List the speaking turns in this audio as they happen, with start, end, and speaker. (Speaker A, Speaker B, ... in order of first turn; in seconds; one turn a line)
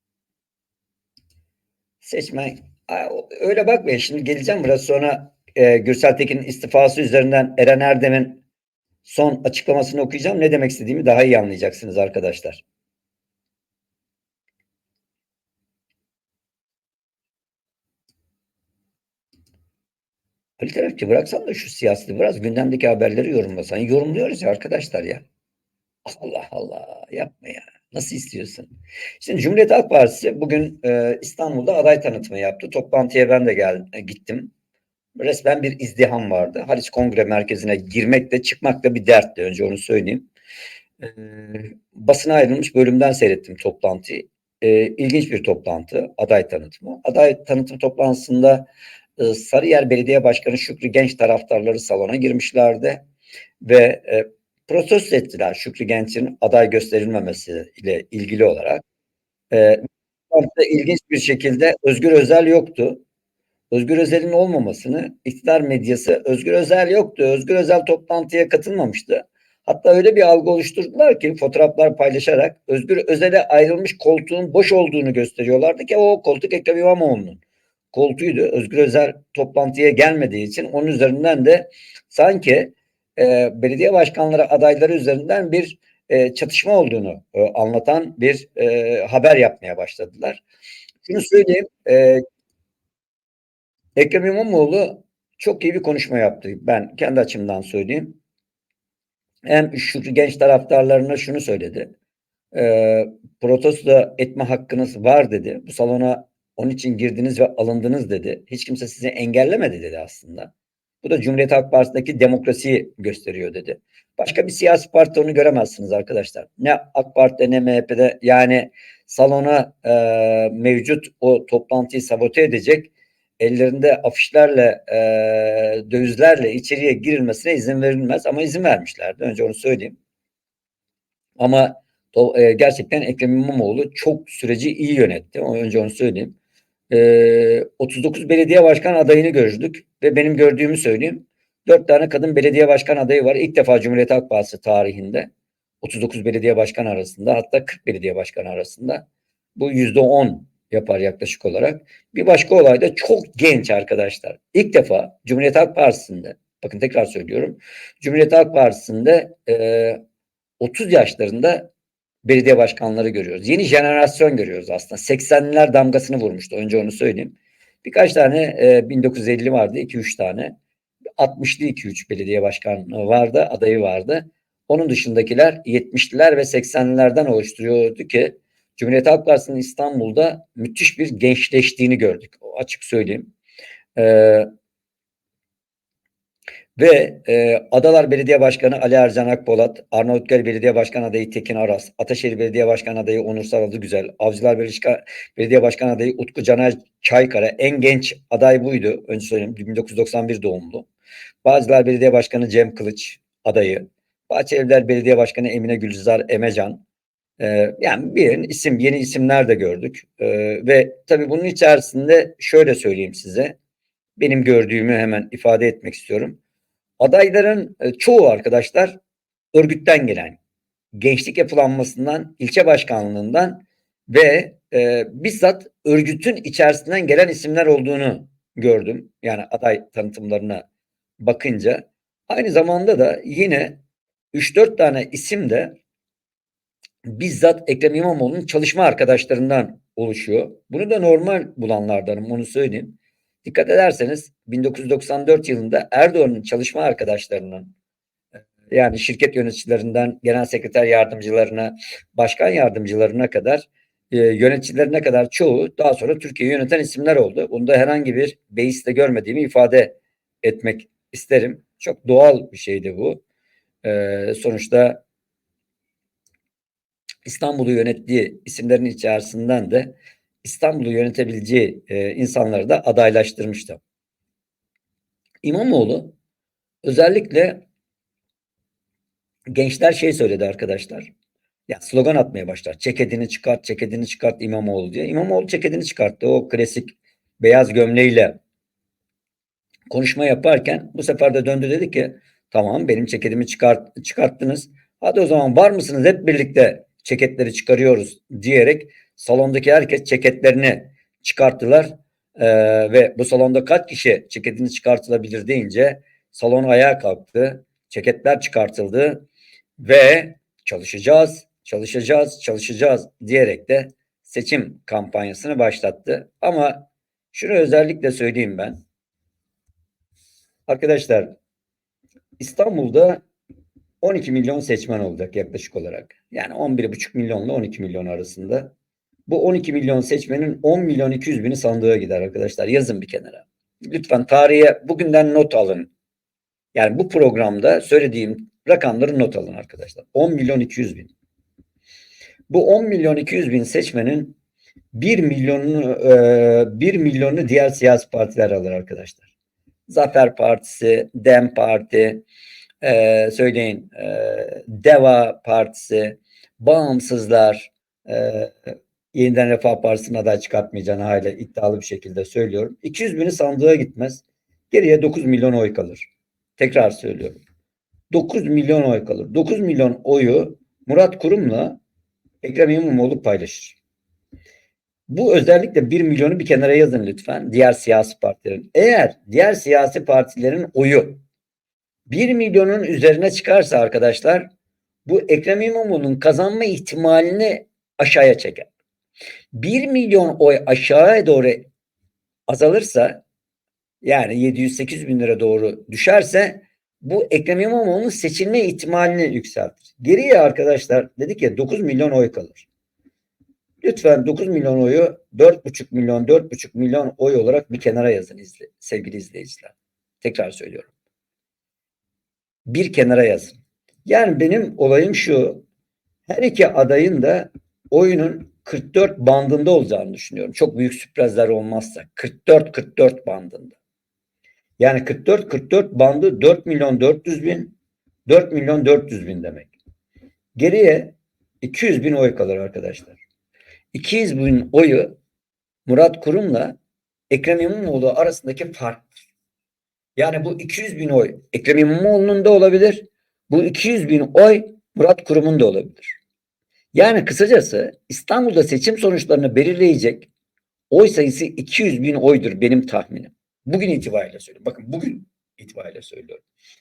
Speaker A: 2.0-8.4
Speaker A: 9.0-12.6
Speaker A: 20.6-25.2
Speaker A: 26.1-34.5
Speaker A: 35.1-40.3
Speaker A: 41.0-53.0
Speaker A: 53.6-58.8
Speaker A: 59.5-63.0
Speaker A: 63.7-77.4
Speaker A: 77.9-90.4
Speaker A: 91.0-92.2
Speaker A: 94.0-98.2
Speaker A: 99.5-101.9
Speaker A: 102.5-110.5
Speaker A: 111.0-130.0
Speaker A: 131.4-136.3
Speaker A: 136.9-145.3
Speaker A: 145.8-149.0
Speaker A: 149.6-160.0
Speaker A: 160.6-161.7
Speaker A: 162.2-170.6
Speaker A: 171.2-183.3
Speaker A: 183.9-184.5
Speaker A: 186.8-200.9
Speaker A: 201.4-206.8
Speaker A: 207.4-213.6
Speaker A: 214.2-216.4
Speaker A: 217.0-219.0
Speaker A: 219.5-220.4
Speaker A: 220.9-230.7
Speaker A: 231.2-233.8
Speaker A: 234.3-235.8
Speaker A: 237.1-247.7
Speaker A: 248.7-263.2
Speaker A: 263.8-265.0
Speaker A: 267.2-273.8
Speaker A: 275.4-276.1
Speaker A: 276.8-277.6
Speaker A: 279.5-281.1
Speaker A: 281.7-288.4
Speaker A: 289.9-309.3
Speaker A: 309.8-318.8
Speaker A: 320.7-321.3
Speaker A: 322.4-323.2
Speaker A: 324.0-328.7
Speaker A: 329.3-335.9
Speaker A: 336.7-341.1
Speaker A: 342.5-344.4
Speaker A: 344.9-349.2
Speaker A: 349.9-352.2
Speaker A: 352.8-367.4
Speaker A: 368.1-371.8
Speaker A: 372.4-373.8
Speaker A: 375.1-381.2
Speaker A: 382.1-384.5
Speaker A: 385.1-388.7
Speaker A: 389.6-391.7
Speaker A: 392.5-393.2
Speaker A: 394.0-402.7
Speaker A: 403.8-410.9
Speaker A: 412.7-415.6
Speaker A: 416.3-423.8
Speaker A: 424.8-427.7
Speaker A: 428.3-429.7
Speaker A: 430.6-433.2
Speaker A: 433.9-435.1
Speaker A: 435.9-436.8
Speaker A: 437.3-439.1
Speaker A: 440.2-446.2
Speaker A: 446.9-450.3
Speaker A: 450.9-456.4